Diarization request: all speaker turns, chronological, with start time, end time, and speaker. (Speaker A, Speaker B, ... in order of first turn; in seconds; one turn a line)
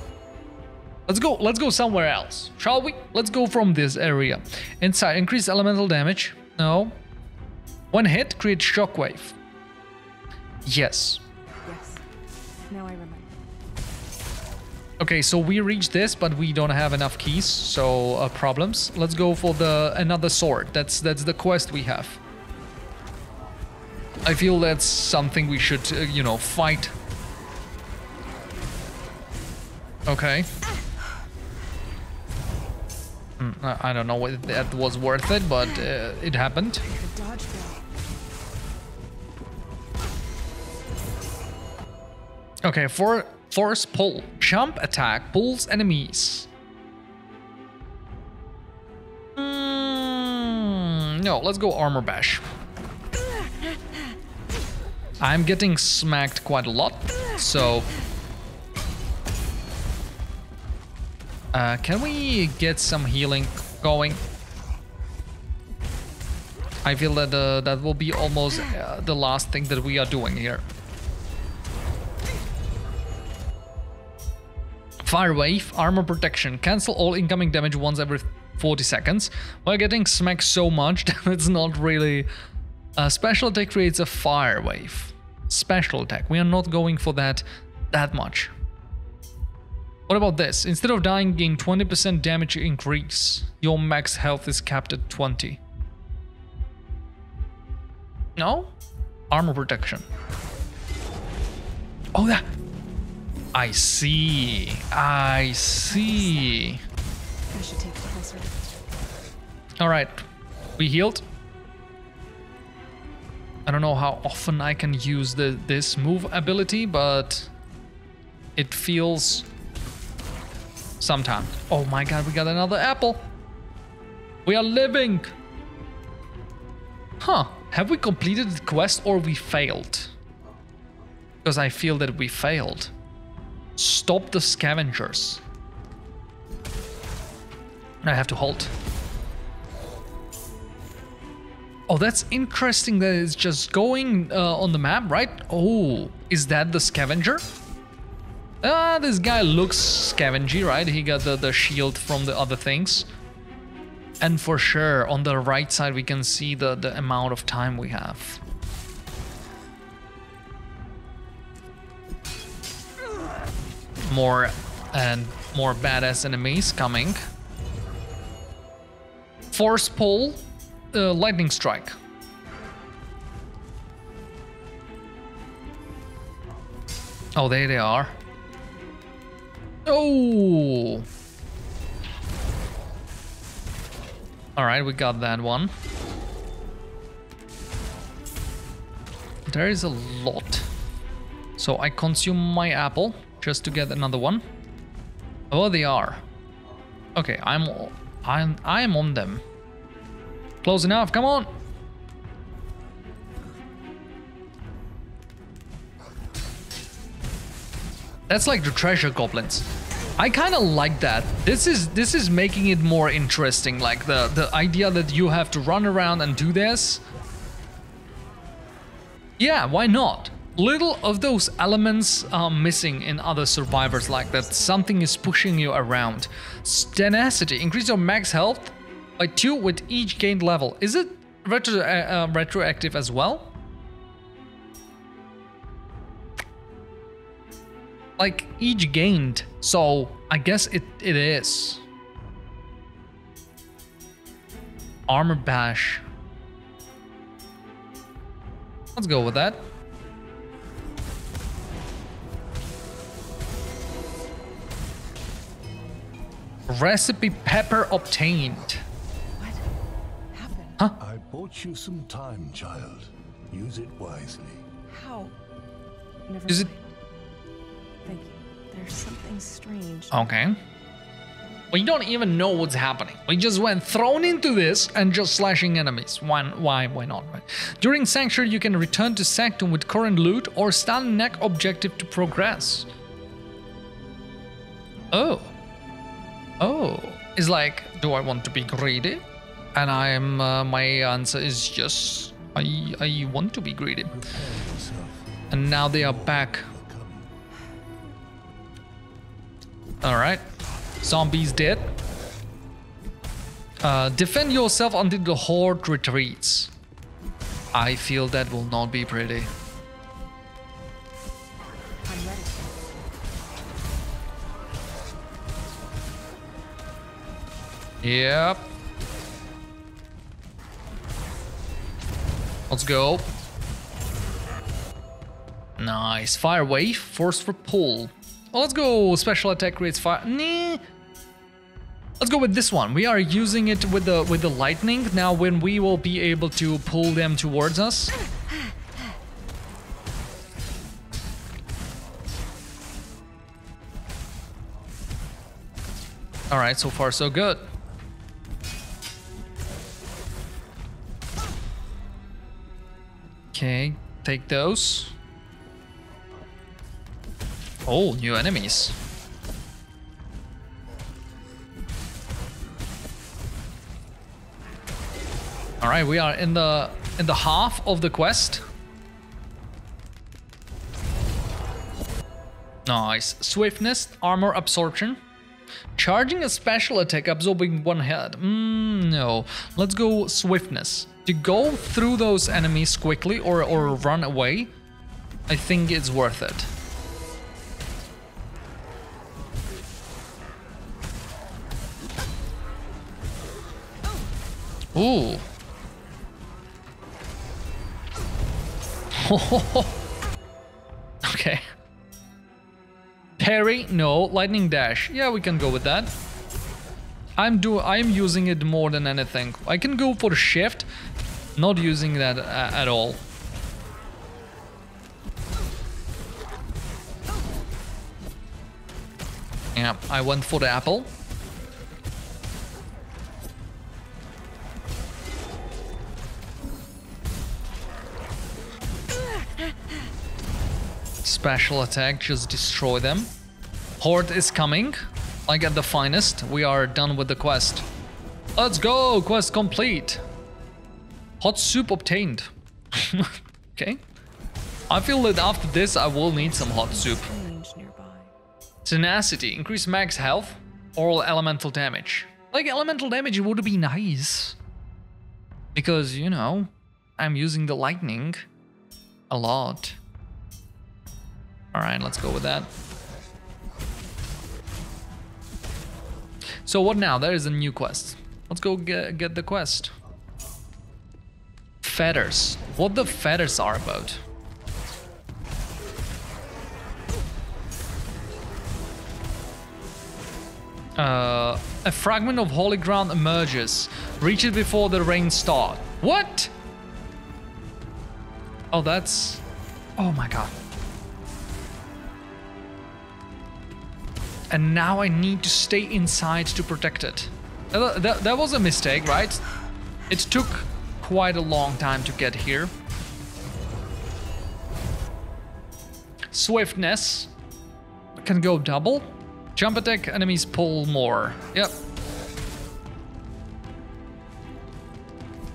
Speaker A: 1.1-7.0
Speaker A: 7.9-9.4
Speaker A: 10.7-11.2
Speaker B: 11.7-12.0
Speaker B: 12.7-13.4
Speaker A: 15.0-22.2
Speaker A: 24.2-26.9
Speaker A: 30.1-30.5
Speaker A: 33.4-36.8
Speaker B: 36.8-37.8
Speaker A: 42.6-46.5
Speaker A: 49.4-52.4
Speaker A: 55.2-57.9
Speaker A: 61.5-64.2
Speaker A: 66.8-70.7
Speaker A: 75.0-82.3
Speaker A: 83.0-88.5
Speaker A: 90.1-95.6
Speaker A: 98.4-98.7
Speaker A: 99.3-100.0
Speaker A: 102.2-102.5
Speaker A: 103.5-106.8
Speaker B: 105.9-106.6
Speaker B: 107.5-108.6
Speaker A: 109.8-110.2
Speaker A: 110.8-111.2
Speaker A: 113.7-117.5
Speaker A: 118.6-119.5
Speaker A: 121.0-123.2
Speaker A: 124.5-125.3
Speaker A: 127.2-130.1
Speaker A: 131.4-132.9
Speaker A: 133.8-135.4
Speaker A: 138.0-138.7
Speaker A: 141.9-147.4
Speaker A: 148.6-153.1
Speaker A: 154.2-158.4
Speaker A: 164.1-167.2
Speaker A: 169.5-171.9
Speaker A: 177.3-178.2
Speaker A: 179.9-181.1
Speaker A: 184.6-185.7
Speaker A: 189.5-190.7
Speaker A: 191.6-194.4
Speaker A: 195.5-196.2
Speaker A: 197.2-199.4
Speaker A: 200.6-201.5
Speaker A: 208.3-217.0
Speaker A: 219.4-233.5
Speaker B: 223.8-225.3
Speaker A: 238.2-241.8
Speaker A: 245.1-246.0
Speaker A: 248.9-249.6
Speaker A: 256.7-258.8
Speaker B: 259.4-259.6
Speaker B: 260.3-260.8
Speaker C: 261.0-264.6
Speaker B: 264.9-265.4
Speaker B: 266.3-266.9
Speaker B: 268.1-270.2
Speaker A: 270.1-270.6
Speaker A: 271.7-282.9
Speaker A: 285.1-285.5
Speaker A: 286.6-289.2
Speaker A: 289.8-294.2
Speaker C: 294.1-297.3
Speaker A: 295.5-296.7
Speaker A: 300.0-300.4
Speaker A: 301.0-301.9
Speaker A: 303.8-306.7
Speaker A: 307.7-309.5
Speaker B: 312.0-312.7
Speaker A: 318.0-318.6
Speaker A: 322.7-323.3
Speaker A: 325.8-330.8
Speaker A: 332.2-338.1
Speaker A: 346.5-347.7
Speaker A: 353.5-355.1
Speaker A: 357.9-359.0
Speaker A: 365.8-368.6
Speaker A: 372.9-375.2
Speaker A: 376.0-384.7
Speaker A: 385.5-386.7
Speaker A: 394.9-395.5
Speaker A: 399.1-400.0
Speaker A: 401.2-401.6
Speaker A: 403.4-406.1
Speaker A: 407.4-410.9
Speaker A: 411.6-413.2
Speaker A: 419.8-421.1
Speaker A: 431.2-433.3
Speaker A: 434.0-437.9
Speaker A: 438.6-440.2
Speaker A: 441.4-444.0
Speaker A: 444.9-447.3
Speaker B: 446.6-448.3
Speaker A: 448.9-454.6
Speaker A: 455.8-458.4
Speaker A: 459.3-460.0
Speaker A: 461.7-462.7
Speaker A: 466.6-469.9
Speaker A: 471.8-474.2
Speaker A: 481.0-486.5
Speaker A: 488.7-489.4
Speaker A: 490.0-490.6
Speaker A: 494.5-499.4
Speaker A: 500.1-502.7
Speaker A: 506.3-507.3
Speaker A: 508.2-511.8